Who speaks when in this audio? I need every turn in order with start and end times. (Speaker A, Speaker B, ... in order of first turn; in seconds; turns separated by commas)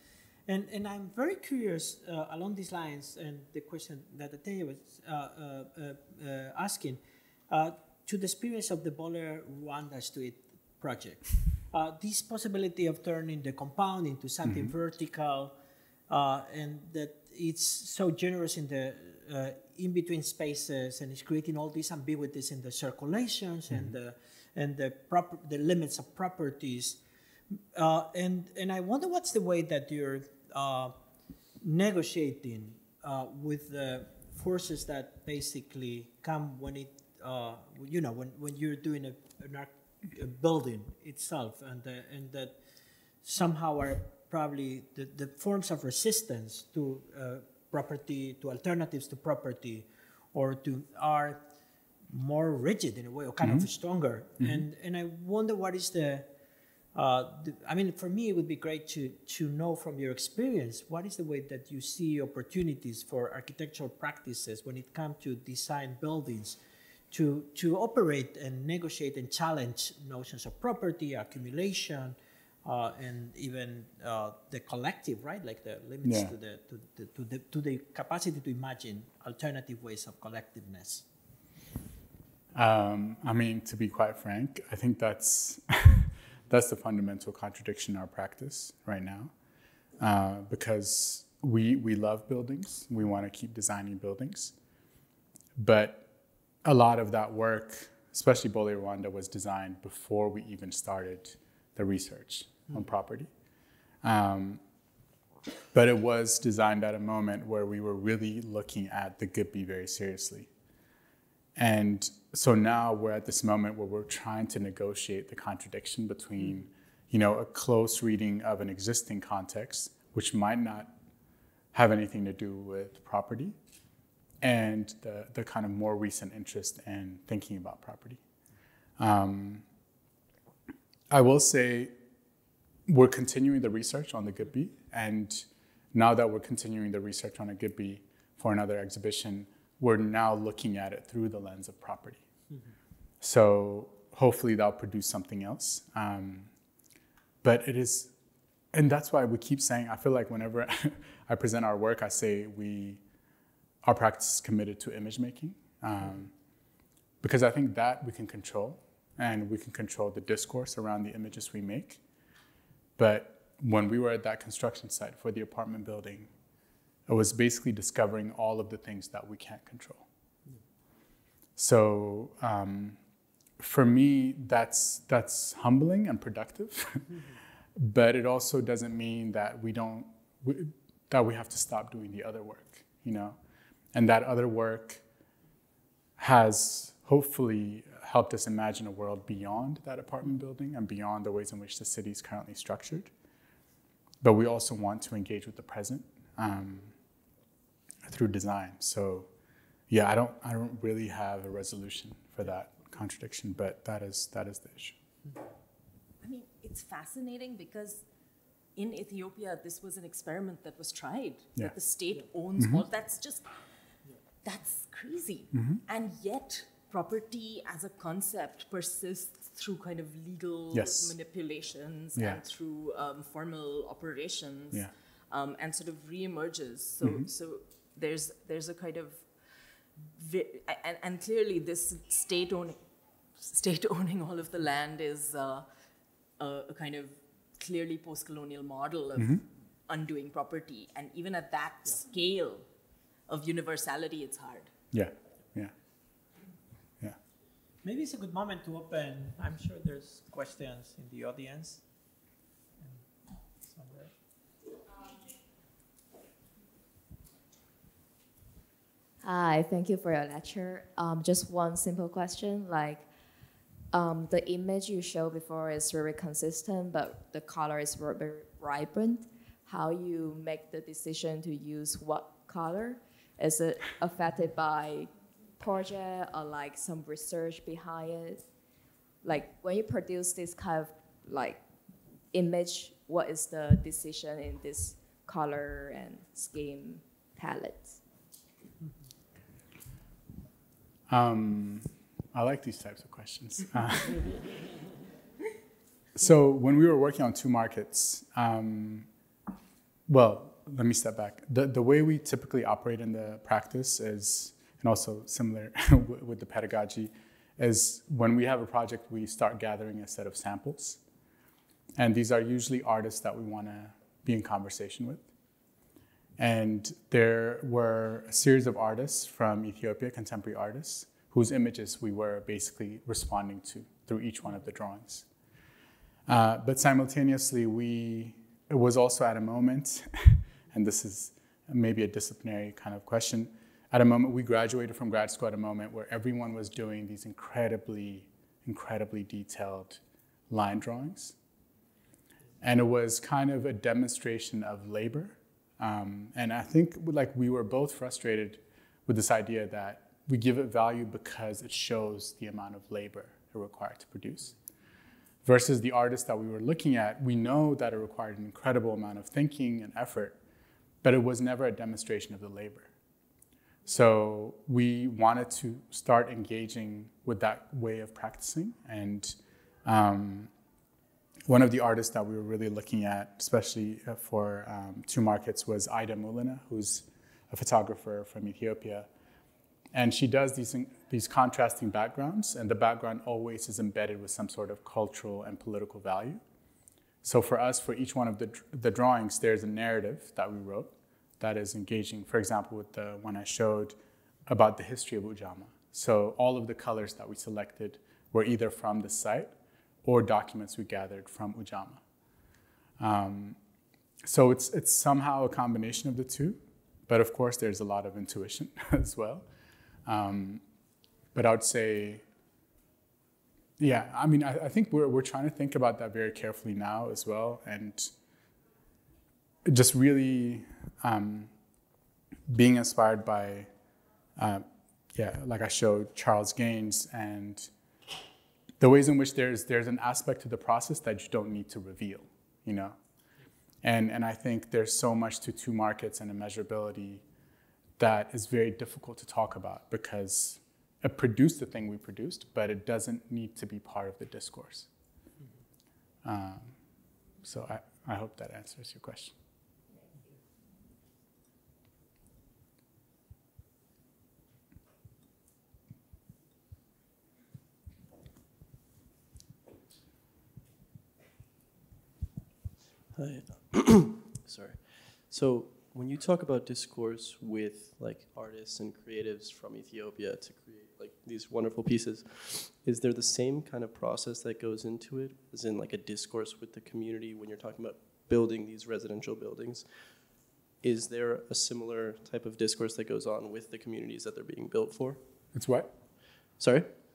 Speaker A: 0.5-15.5, Speaker B: 14.4-14.7, Speaker A: 16.1-27.0, Speaker A: 27.8-30.9, Speaker A: 31.6-42.6, Speaker A: 43.2-51.4, Speaker A: 52.1-56.3, Speaker B: 53.4-53.7, Speaker B: 54.4-54.6, Speaker A: 57.0-66.6, Speaker A: 67.1-81.0, Speaker B: 76.0-76.3, Speaker B: 82.5-89.3, Speaker B: 90.0-94.5, Speaker B: 95.6-96.1, Speaker B: 96.6-103.3, Speaker B: 104.0-104.6, Speaker B: 105.7-110.5, Speaker B: 111.6-120.9, Speaker B: 121.7-123.6, Speaker B: 124.4-128.2, Speaker B: 129.0-129.7, Speaker B: 131.1-131.9, Speaker B: 132.9-142.2, Speaker B: 143.2-146.5, Speaker B: 147.4-148.1, Speaker B: 148.7-153.0, Speaker B: 153.8-156.3, Speaker B: 157.2-162.0, Speaker B: 163.0-166.3, Speaker B: 167.1-170.1, Speaker B: 171.6-173.0, Speaker B: 173.6-177.2, Speaker B: 177.8-183.4, Speaker B: 183.9-185.0, Speaker B: 186.2-193.1, Speaker B: 194.2-196.9, Speaker B: 198.0-199.3, Speaker B: 199.9-205.0, Speaker C: 206.2-208.0, Speaker C: 208.8-213.5, Speaker B: 212.6-212.8, Speaker C: 214.4-229.3, Speaker B: 215.5-215.8, Speaker B: 220.7-221.2, Speaker B: 227.0-227.3, Speaker C: 230.1-232.8, Speaker C: 233.4-235.7, Speaker C: 236.4-242.7, Speaker B: 239.2-239.4, Speaker C: 243.3-244.7, Speaker B: 244.9-245.7, Speaker A: 247.8-251.8, Speaker A: 252.8-254.1, Speaker D: 259.2-263.1, Speaker D: 263.9-278.5, Speaker D: 279.2-281.6, Speaker D: 282.3-288.0, Speaker B: 291.1-294.4, Speaker B: 296.1-299.1, Speaker B: 300.1-311.0, Speaker B: 312.0-315.3, Speaker B: 316.4-325.3, Speaker B: 326.3-341.4, Speaker B: 342.6-354.6, Speaker B: 355.4-360.4, Speaker B: 361.0-362.9, Speaker B: 363.9-370.5, Speaker B: 371.5-379.1, Speaker B: 379.9-386.4, Speaker B: 387.2-402.0, Speaker B: 403.0-403.6, Speaker B: 404.2-409.5, Speaker B: 410.1-410.6, Speaker B: 411.3-412.2, Speaker B: 413.8-418.1, Speaker B: 419.6-421.5, Speaker B: 422.5-423.7, Speaker B: 424.4-427.7, Speaker B: 428.8-433.0, Speaker B: 433.8-437.2, Speaker B: 438.0-444.9, Speaker B: 446.2-446.8, Speaker B: 447.4-449.3, Speaker E: 463.1-485.2, Speaker B: 485.5-485.9, Speaker E: 486.6-486.9